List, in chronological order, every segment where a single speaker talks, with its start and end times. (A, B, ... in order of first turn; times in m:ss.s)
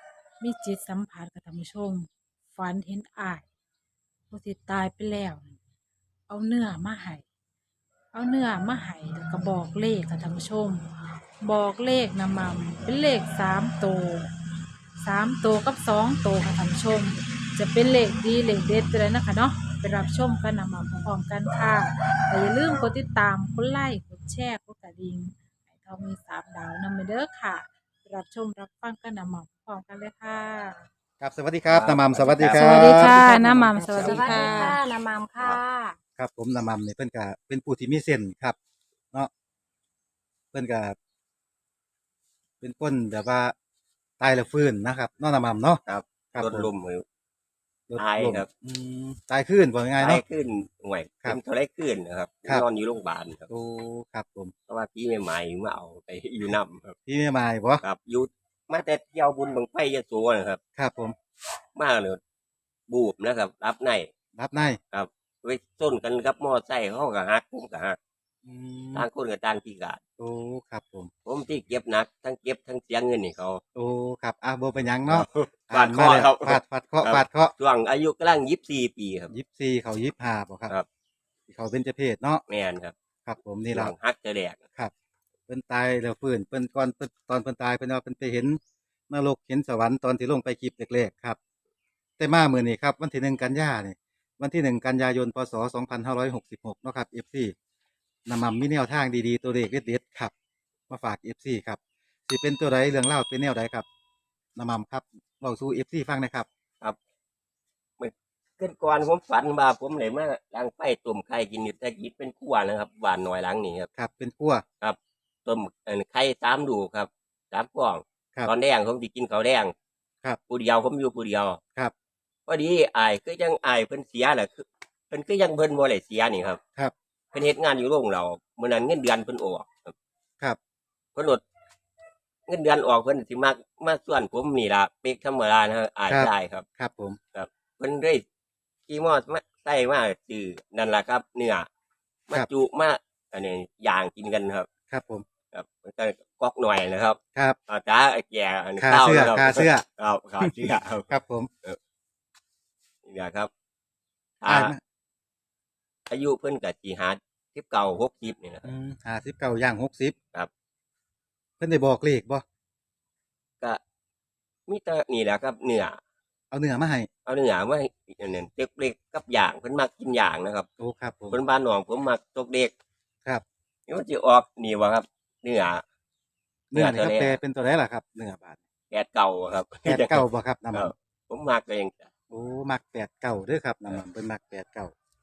0:00.4-0:03.5 A
0:04.3-0:05.6 A
0:06.3-0:07.2 A
0:08.1-0:10.8 A
0:11.4-0:14.3 A
0:15.0-0:30.9 A
0:31.2-0:33.3 B
0:31.7-0:33.1 C
0:32.5-0:36.0 D
0:32.6-0:34.8 A
0:33.9-0:34.5 C
0:36.2-0:38.6 B
0:40.5-0:41.0 B
0:42.6-0:43.5 B
0:44.2-0:45.8 B
0:45.9-0:47.0 C
0:46.4-0:46.7 B
0:47.9-0:50.2 B
0:48.0-0:48.5 C
0:50.0-0:53.5 C
0:53.5-0:54.5 B
0:54.7-0:57.0 C
0:57.1-0:57.8 B
0:57.8-1:00.6 C
1:00.8-1:01.2 B
1:01.8-1:02.2 C
1:02.9-1:04.1 C
1:04.4-1:04.8 B
1:04.9-1:08.0 C
1:08.4-1:09.1 B
1:08.9-1:10.0 C
1:10.2-1:11.1 B
1:11.2-1:13.6 C
1:13.8-1:17.5 B
1:15.1-1:19.3 C
1:19.3-1:20.8 B
1:21.5-1:22.4 B
1:22.5-1:22.9 C
1:23.3-1:24.0 B
1:23.7-1:24.6 C
1:25.5-1:28.6 B
1:29.1-1:31.4 B
1:32.2-1:37.5 B
1:38.3-1:40.3 B
1:40.9-1:43.8 B
1:44.6-1:46.5 B
1:48.0-1:53.9 C
1:54.0-1:54.6 B
1:54.8-1:59.7 C
2:00.5-2:01.6 C
2:02.5-2:06.6 C
2:07.3-2:09.9 C
2:11.2-2:11.4 C
2:12.5-2:16.6 C
2:16.1-2:17.2 B
2:17.3-2:18.2 C
2:18.9-2:21.7 C
2:22.3-2:24.7 C
2:24.9-2:25.2 B
2:25.5-2:31.1 C
2:28.8-2:29.8 B
2:31.1-2:31.5 B
2:33.0-2:33.5 C
2:34.4-2:34.8 C
2:34.5-2:34.8 B
2:36.1-2:38.7 C
2:38.6-2:40.2 B
2:41.6-2:42.4 B
2:44.7-2:46.0 C
2:46.5-2:47.1 B
2:47.3-2:50.7 C
2:50.8-2:51.4 B
2:51.3-2:52.7 C
2:53.9-2:55.8 C
2:56.7-2:58.6 B
2:56.7-2:57.4 C
2:58.9-3:02.1 C
2:59.8-3:00.9 B
3:02.3-3:04.9 B